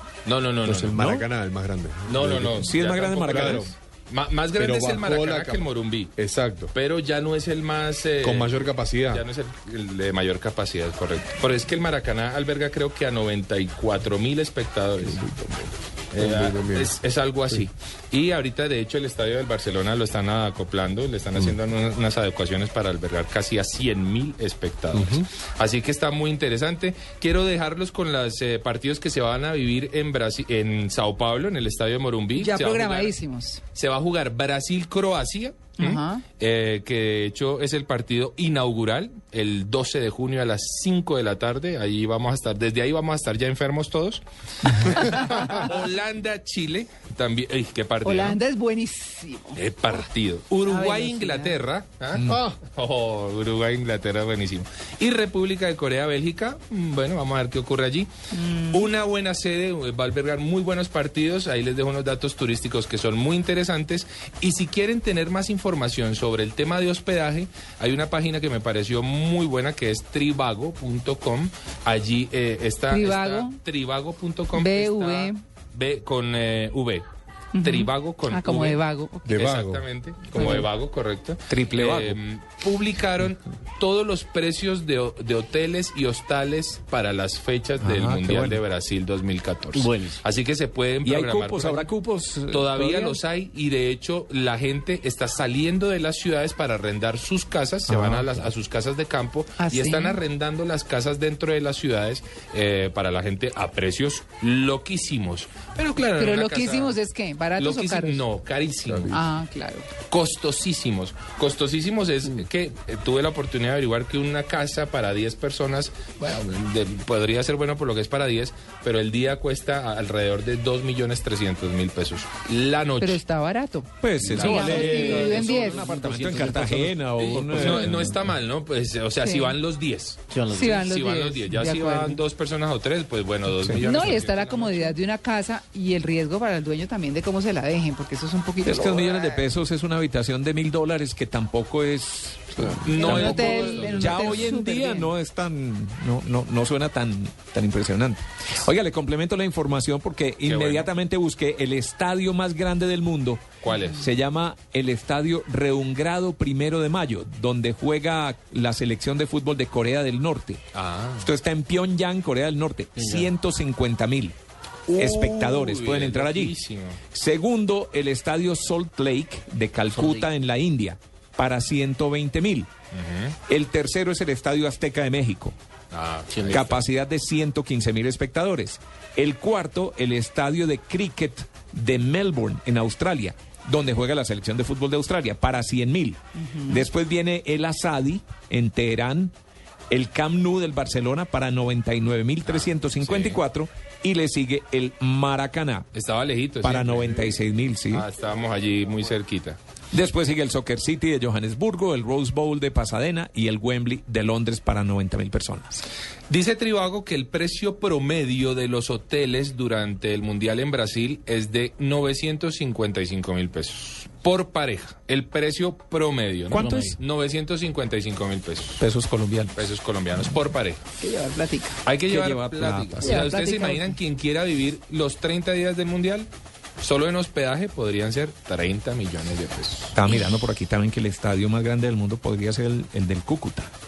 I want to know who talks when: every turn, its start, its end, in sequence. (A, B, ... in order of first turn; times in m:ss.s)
0:00.2-0:01.0 A
0:00.6-0:02.7 B
0:00.9-0:01.2 C
0:02.1-0:06.1 A
0:02.6-0:03.7 C
0:03.2-0:03.7 B
0:04.6-0:06.7 B
0:06.7-0:15.2 A
0:08.2-0:09.2 B
0:15.0-0:17.0 B
0:16.1-0:33.2 A
0:24.9-0:25.2 B
0:32.4-0:33.6 D
0:33.7-0:48.4 A
0:35.8-0:36.2 D
0:48.0-0:49.9 D
0:49.6-0:58.1 A
0:50.6-0:51.6 D
0:52.2-0:52.6 B
0:58.3-0:58.9 D
0:58.7-1:17.0 A
1:12.9-1:13.6 D
1:14.5-1:15.4 D
1:17.5-1:19.3 D
1:17.6-1:18.8 A
1:19.2-1:19.8 B
1:19.3-1:31.9 A
1:20.3-1:20.7 D
1:21.5-1:22.2 C
1:27.8-1:28.6 C
1:29.7-1:30.2 E
1:31.0-1:33.2 C
1:32.5-1:47.0 A
1:37.9-1:38.5 C
1:39.6-1:40.2 D
1:46.1-1:48.3 D
1:47.6-1:49.2 A
1:48.9-1:49.2 B
1:49.1-1:49.9 D
1:50.1-2:03.2 A
2:03.0-2:05.9 D
2:04.0-2:08.2 C
2:04.2-2:05.9 A
2:05.5-2:06.9 E
2:07.1-2:10.2 A
2:09.2-2:09.6 D
2:10.3-2:10.9 E
2:10.5-2:12.2 D
2:10.8-2:15.0 A
2:13.6-2:14.2 C
2:13.8-2:19.4 D
2:18.6-2:40.6 C
2:22.8-2:24.5 A
2:22.9-2:25.1 D
2:30.4-2:30.9 A
2:33.6-2:34.1 A
2:40.7-2:41.3 A
2:41.2-2:44.4 C
2:42.9-2:43.3 E
2:44.9-2:47.0 A
2:44.9-2:46.5 C
2:47.1-2:52.7 C
2:50.0-2:50.2 E
2:52.9-2:53.4 A
2:53.5-2:55.6 C
2:55.9-2:56.8 A
2:56.3-2:56.6 E
2:56.5-3:09.3 C
3:06.4-3:06.8 D
3:09.9-3:15.8 C
3:12.4-3:13.4 A
3:15.9-3:19.6 A
3:16.6-3:18.0 C
3:19.9-3:25.8 C
3:26.3-3:38.8 A
3:36.5-3:37.0 C
3:38.8-3:39.5 C
3:39.6-3:40.8 A
3:41.0-3:41.8 D
3:41.8-3:50.0 A
3:42.1-3:43.3 C
3:43.0-3:44.0 D
3:49.9-3:53.7 C